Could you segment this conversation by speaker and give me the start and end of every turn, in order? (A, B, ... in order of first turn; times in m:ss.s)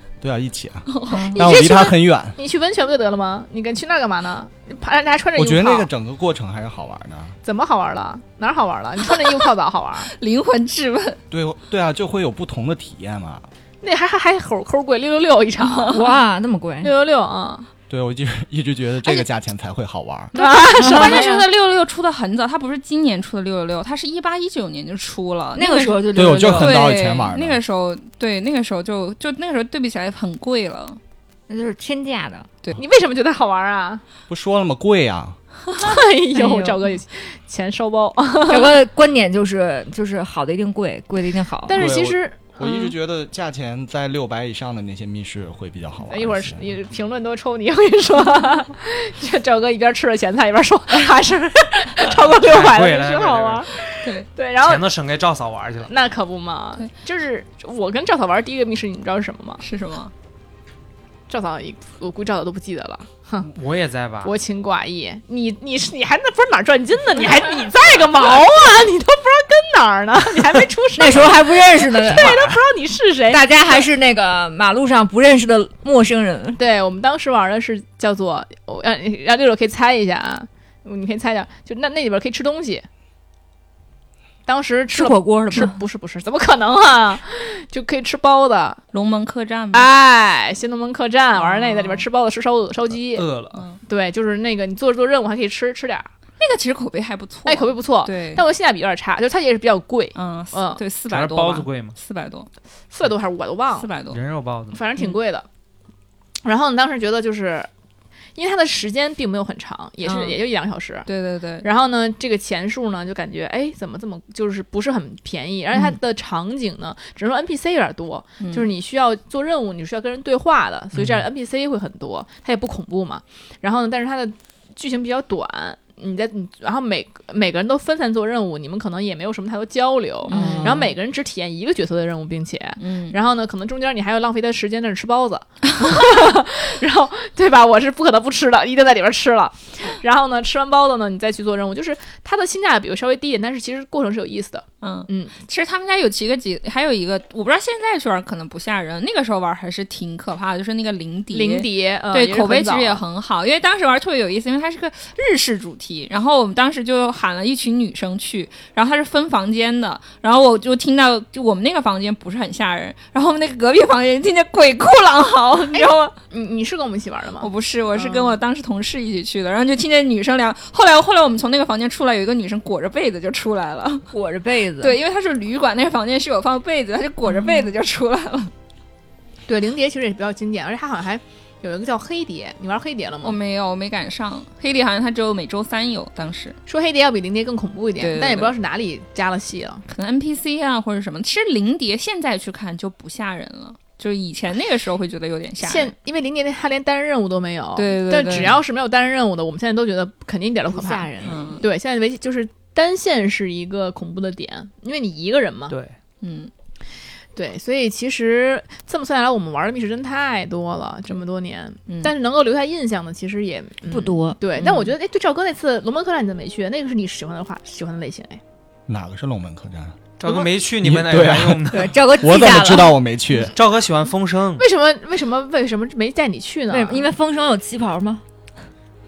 0:00.2-0:02.4 A
0:00.9-0:01.4 B
0:01.1-0:01.4 C
0:01.4-0:05.9 D
0:05.4-0:07.4 A
0:07.4-0:10.1 D
0:10.1-0:11.2 B
0:11.3-0:13.5 A
0:13.8-0:16.0 D
0:15.7-0:16.0 B
0:15.9-0:16.9 C
0:16.8-0:17.7 D
0:17.9-0:20.3 A
0:20.3-0:21.5 D
0:20.4-0:31.0 B
0:20.8-0:21.3 C
0:25.6-0:26.8 C
0:26.1-0:27.6 A
0:31.5-0:32.5 C
0:32.8-0:34.0 D
0:34.3-0:35.4 A
0:35.8-0:38.7 D
0:36.3-0:36.8 C
0:38.5-0:41.8 C
0:41.7-0:42.8 D
0:41.8-0:46.6 A
0:46.1-0:54.9 D
0:52.3-0:53.7 E
0:54.6-0:55.9 E
0:55.9-0:59.6 D
0:59.6-1:00.1 B
1:01.3-1:03.5 D
1:03.4-1:04.3 E
1:04.2-1:13.9 D
1:11.0-1:12.5 C
1:12.1-1:12.5 E
1:13.3-1:16.6 C
1:16.6-1:22.8 D
1:24.5-1:28.8 D
1:24.9-1:25.8 C
1:28.9-1:29.9 B
1:29.7-1:33.3 D
1:31.4-1:32.0 B
1:33.1-1:33.6 E
1:33.5-1:33.8 B
1:33.9-1:36.1 D
1:36.4-1:38.4 B
1:37.5-1:40.8 D
1:40.2-1:42.5 B
1:41.1-1:42.0 E
1:42.9-1:43.9 D
1:43.8-1:44.2 B
1:44.1-1:44.8 E
1:44.7-1:45.5 D
1:46.4-1:47.7 D
1:48.4-1:51.1 D
1:50.0-1:50.4 B
1:51.1-1:51.7 B
1:51.6-2:25.3 D
1:58.4-1:58.7 B
2:01.0-2:01.2 E
2:10.2-2:10.8 B
2:10.3-2:10.9 C
2:12.8-2:13.2 B
2:24.8-2:46.2 B
2:31.3-2:33.0 D
2:45.7-2:48.3 D
2:47.4-2:54.1 B
2:54.1-2:55.0 C
2:54.8-2:58.5 B
2:59.5-3:03.4 D
3:03.2-3:06.6 B
3:06.7-3:09.8 D
3:08.0-3:08.5 B
3:09.9-3:15.9 B
3:15.6-3:25.8 D
3:17.8-3:18.6 B
3:20.7-3:21.6 C
3:21.2-3:21.6 B
3:25.7-3:26.0 E
3:26.2-3:26.5 B
3:27.4-3:38.4 D
3:33.9-3:34.4 C
3:38.9-3:40.1 A
3:40.2-3:42.0 E
3:40.8-3:43.5 A
3:41.7-3:43.0 C
3:43.5-3:44.7 E
3:44.6-3:47.1 D
3:46.7-3:48.2 C